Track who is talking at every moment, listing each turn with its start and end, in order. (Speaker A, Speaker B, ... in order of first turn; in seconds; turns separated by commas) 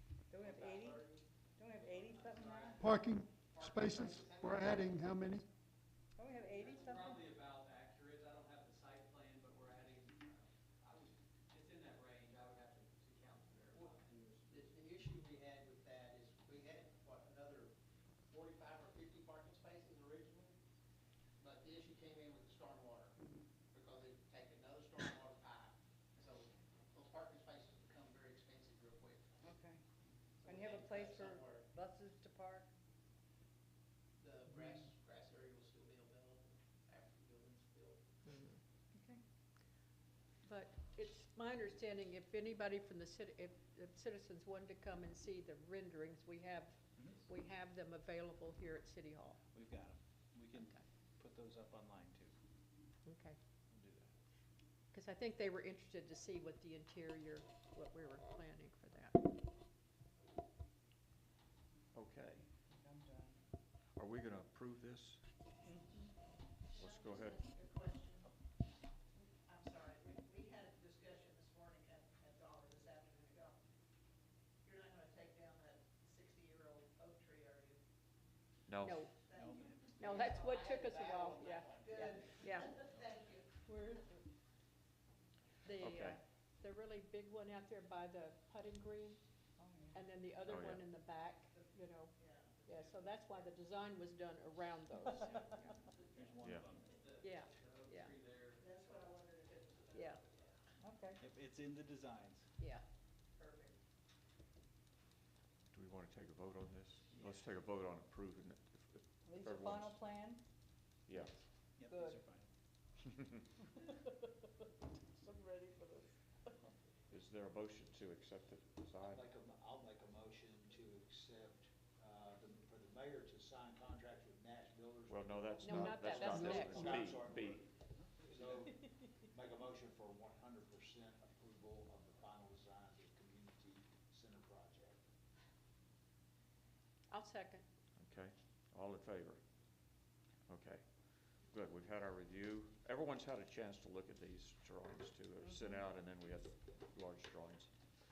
Speaker A: 0.3-2.9, Speaker B: 0.4-1.2, Speaker C: 1.8-2.7, Speaker B: 2.1-2.6, Speaker D: 2.8-5.5, Speaker B: 3.5-4.8, Speaker A: 6.2-7.3, Speaker C: 6.4-14.4, Speaker B: 14.5-17.7, Speaker B: 18.3-20.5, Speaker B: 21.4-23.1, Speaker B: 23.7-29.2, Speaker A: 29.4-29.8, Speaker B: 30.4-31.6, Speaker A: 30.4-32.7, Speaker B: 34.2-38.0, Speaker A: 34.5-34.9, Speaker A: 38.9-39.2, Speaker E: 40.4-49.4, Speaker F: 49.5-52.3, Speaker E: 53.0-53.4, Speaker F: 53.7-54.1, Speaker E: 54.9-59.2, Speaker G: 61.9-62.4, Speaker A: 62.7-63.4, Speaker G: 64.0-65.2, Speaker A: 65.6-66.0, Speaker B: 66.7-68.3, Speaker G: 66.8-67.4, Speaker B: 69.5-73.6, Speaker B: 74.6-77.8, Speaker G: 78.7-79.0, Speaker E: 78.8-79.1, Speaker B: 79.3-83.5, Speaker F: 79.3-80.5, Speaker E: 80.0-82.8, Speaker E: 83.7-84.2, Speaker E: 85.6-89.2, Speaker G: 85.8-86.2, Speaker A: 89.6-90.0, Speaker E: 89.9-92.1, Speaker G: 90.5-90.8, Speaker B: 92.2-93.5, Speaker E: 92.7-95.5, Speaker F: 95.4-97.0, Speaker G: 96.4-96.7, Speaker C: 96.9-98.7, Speaker E: 97.2-98.1, Speaker B: 98.6-100.6, Speaker E: 99.9-100.2, Speaker A: 100.8-101.2, Speaker F: 101.2-102.5, Speaker E: 102.6-102.8, Speaker B: 103.4-103.7, Speaker G: 105.7-110.0, Speaker F: 107.1-107.5, Speaker A: 109.2-110.4, Speaker G: 111.1-111.3, Speaker F: 111.8-112.5, Speaker A: 111.9-112.2, Speaker A: 115.2-116.0, Speaker G: 117.1-119.3, Speaker H: 119.0-127.7, Speaker G: 125.1-127.6, Speaker E: 125.6-127.1, Speaker D: 126.4-126.7, Speaker H: 128.2-135.0, Speaker E: 137.1-137.6, Speaker G: 138.0-139.4, Speaker G: 140.5-140.8, Speaker G: 141.5-147.7